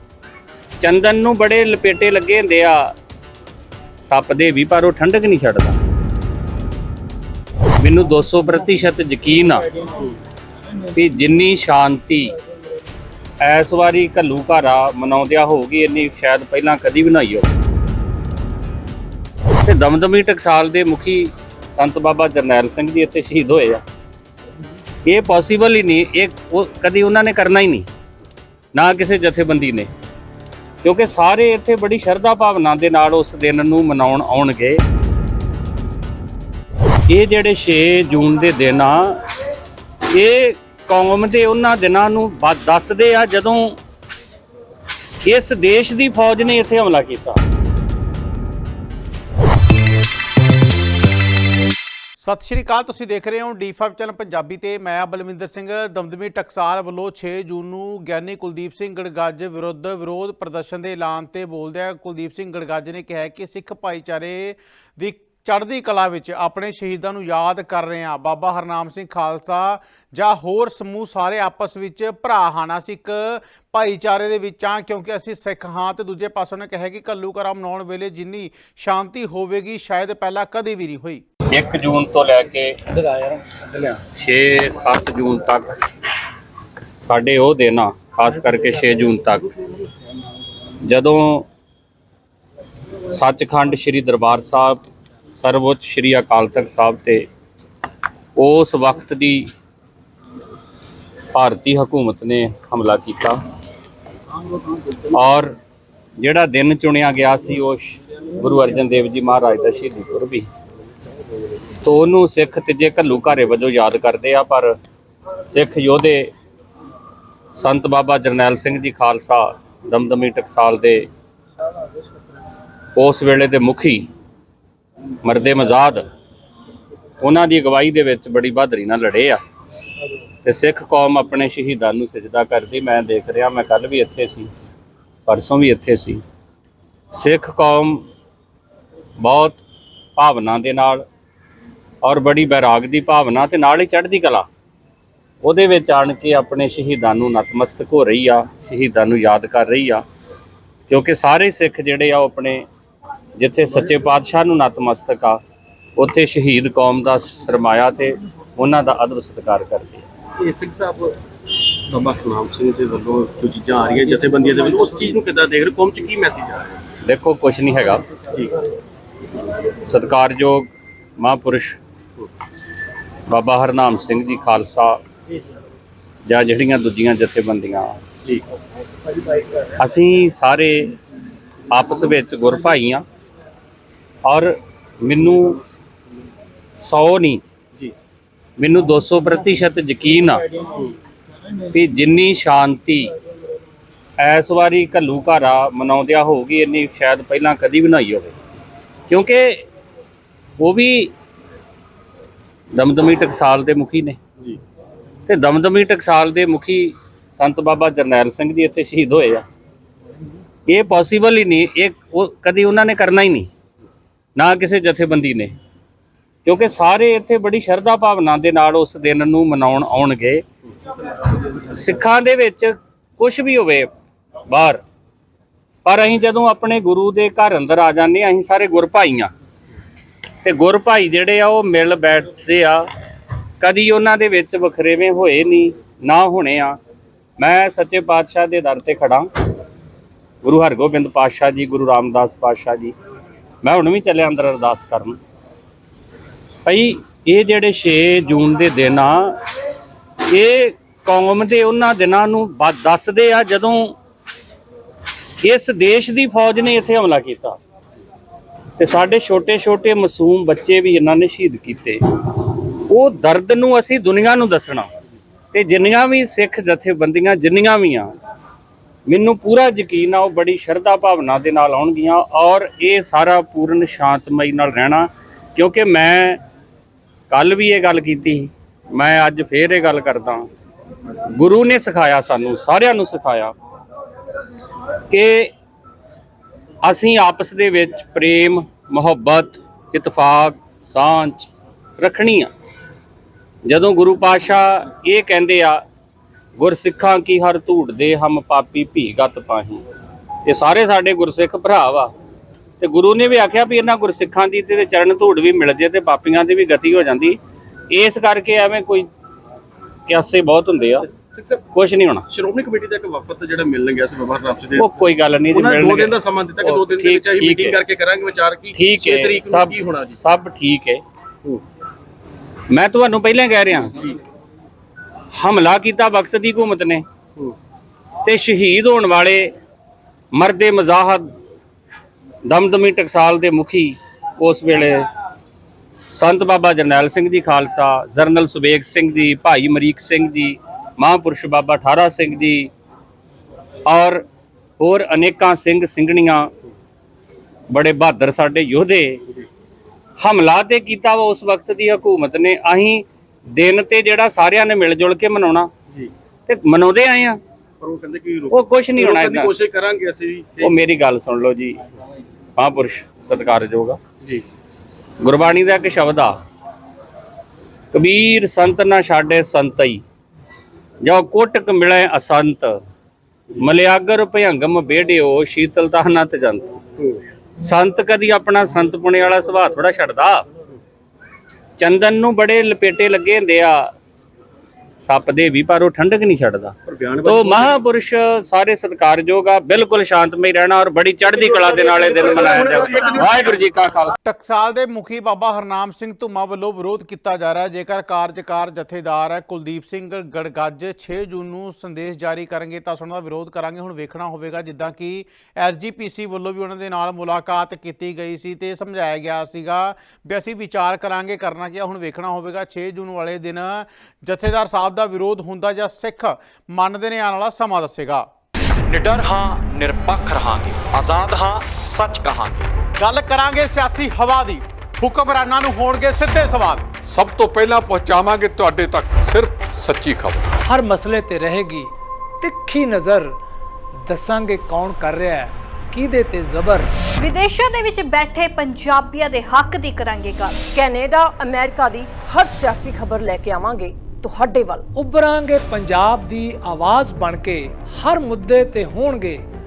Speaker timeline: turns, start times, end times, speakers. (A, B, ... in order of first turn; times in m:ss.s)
0:00.8-0:02.9 A
0:04.0-0:05.8 A
0:07.8-0:09.6 A
0:10.9-0:12.3 A
0:13.4-0:17.5 A
0:19.6-0:23.8 A
0:25.0-0:27.9 A
0:28.7-0:29.9 A
0:30.8-0:34.8 A
0:37.1-0:39.2 A
0:40.1-0:43.8 A
0:45.2-0:47.4 A
0:52.2-1:21.2 B
1:21.5-1:25.7 A
1:27.0-1:29.5 A
1:30.8-1:31.4 A
1:33.1-1:34.8 A
1:35.4-1:37.2 A
1:38.4-1:39.4 A
1:41.3-1:43.4 A
1:44.9-1:45.5 A
1:46.2-1:50.4 A
1:51.8-1:54.7 A
1:55.5-1:56.3 A
1:57.5-2:01.1 A
2:03.0-2:04.0 A
2:05.2-2:06.0 A
2:07.2-2:09.4 A
2:10.4-2:14.5 A
2:15.3-2:16.2 A
2:17.1-2:18.0 A
2:19.2-2:19.6 A
2:20.2-2:21.0 A
2:22.0-2:24.5 A
2:25.4-2:30.0 A
2:30.9-2:32.6 A
2:33.4-2:35.4 A
2:36.0-2:40.0 A
2:40.4-2:41.2 C
2:41.9-2:46.8 C
2:47.0-2:48.0 A
2:49.8-2:51.8 A
2:53.3-2:55.0 A
2:56.3-2:58.0 A
2:59.7-3:00.9 A
3:01.7-3:03.0 A
3:04.2-3:05.6 A
3:06.8-3:07.4 A
3:08.6-3:10.4 A
3:11.7-3:13.1 A
3:14.2-3:18.3 A
3:19.1-3:19.6 A
3:20.6-3:21.1 A
3:22.7-3:24.2 A
3:25.3-3:29.4 A
3:30.7-3:33.5 A
3:34.4-3:35.5 A
3:36.4-3:40.4 A
3:41.5-3:43.9 A
3:44.5-3:44.8 A
3:45.8-3:49.3 A
3:50.4-3:52.8 A
3:53.6-3:56.8 A
3:57.4-3:59.3 A
4:00.4-4:02.9 A
4:03.6-4:05.2 A
4:06.6-4:09.4 A
4:10.3-4:14.0 A
4:15.4-4:17.6 A
4:18.8-4:22.0 A
4:22.9-4:24.9 A
4:25.5-4:28.1 A
4:29.1-4:36.4 A
4:37.3-4:40.5 A
4:41.3-4:43.5 A
4:45.1-4:45.5 A
4:46.8-4:52.5 A
4:53.6-4:55.8 A
4:56.6-4:59.8 A
5:00.4-5:02.1 A
5:02.8-5:07.4 A
5:07.9-5:09.1 A
5:10.1-5:11.0 A
5:11.1-5:11.6 C
5:11.7-5:12.2 A
5:12.3-5:14.9 C
5:14.8-5:17.8 A
5:15.5-5:20.2 C
5:18.7-5:21.0 A
5:22.7-5:23.9 A
5:25.3-5:27.0 A
5:28.2-5:29.5 A
5:30.3-5:31.2 A
5:32.4-5:35.0 A
5:36.1-5:42.7 A
5:43.8-5:44.2 A
5:44.8-5:46.5 A
5:47.7-5:49.2 A
5:50.2-5:55.7 A
5:56.5-5:57.4 A
5:57.8-6:00.8 C
5:58.5-5:59.5 A
6:00.6-6:01.8 A
6:02.6-6:04.0 A
6:05.2-6:06.4 A
6:07.9-6:10.0 A
6:11.0-6:12.8 A
6:13.6-6:16.7 A
6:17.6-6:20.4 A
6:21.8-6:23.9 A
6:25.0-6:34.2 A
6:26.8-6:27.8 C
6:32.2-6:33.1 C
6:34.2-6:58.3 B
6:58.9-7:02.7 D
7:03.0-7:06.8 B
7:07.0-7:10.5 E
7:10.6-7:13.4 F
7:14.1-7:16.9 F
7:17.1-7:20.7 G
7:20.7-7:24.9 H
7:24.9-7:29.4 F